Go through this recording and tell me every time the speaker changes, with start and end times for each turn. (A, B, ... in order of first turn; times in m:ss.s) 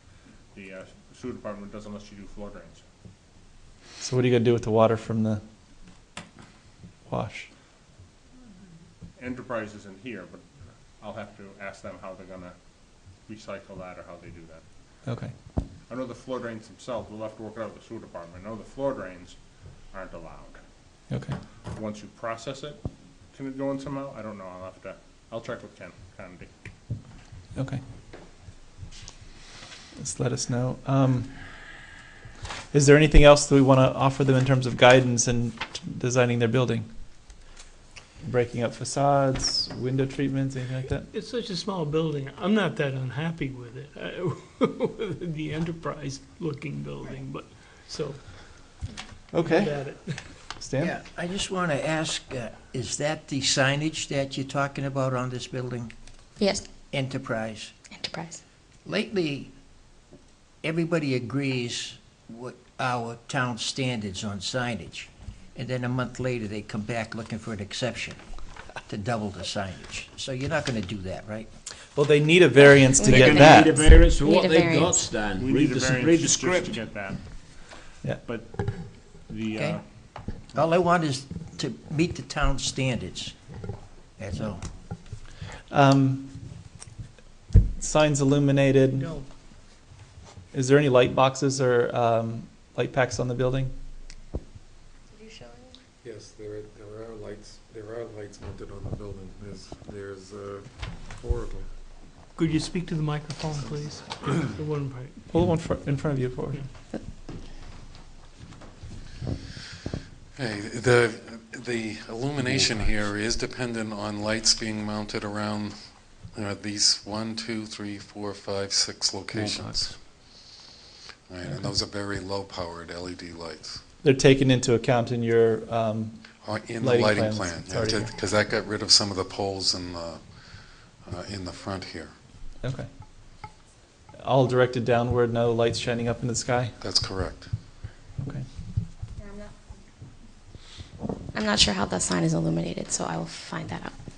0:00.5-0:02.8 A
0:04.0-0:05.4 B
0:07.0-0:07.5 B
0:09.2-0:10.4 A
0:11.0-0:12.5 A
0:13.2-0:14.6 A
0:15.0-0:15.3 B
0:15.9-0:19.4 A
0:19.9-0:20.6 A
0:21.1-0:21.4 B
0:21.7-0:22.8 A
0:23.3-0:26.5 A
0:27.5-0:27.8 B
0:30.0-0:31.8 B
0:32.7-0:37.2 B
0:38.2-0:41.1 B
0:41.1-0:50.6 C
0:49.3-0:51.0 B
0:50.8-0:55.9 D
0:56.4-0:56.6 E
0:56.9-0:57.7 D
0:57.9-0:58.4 E
0:58.8-0:59.5 D
1:00.6-1:08.2 D
1:08.8-1:11.5 D
1:11.9-1:13.9 B
1:12.6-1:15.1 E
1:13.0-1:16.8 F
1:15.4-1:17.2 A
1:17.7-1:19.8 A
1:20.5-1:23.3 D
1:24.2-1:24.6 D
1:25.7-1:26.4 B
1:27.8-1:29.1 B
1:28.9-1:29.3 C
1:30.5-1:33.7 B
1:36.0-1:41.7 G
1:42.4-1:45.2 C
1:45.3-1:46.6 B
1:50.4-2:00.1 H
1:52.4-1:52.9 F
1:59.3-2:00.0 F
2:01.3-2:03.8 H
2:01.4-2:01.7 B
2:04.0-2:08.1 B
2:06.4-2:10.2 H
2:11.0-2:12.1 H
2:12.6-2:12.9 B
2:14.2-2:16.8 B
2:16.8-2:17.5 H
2:21.3-2:23.9 E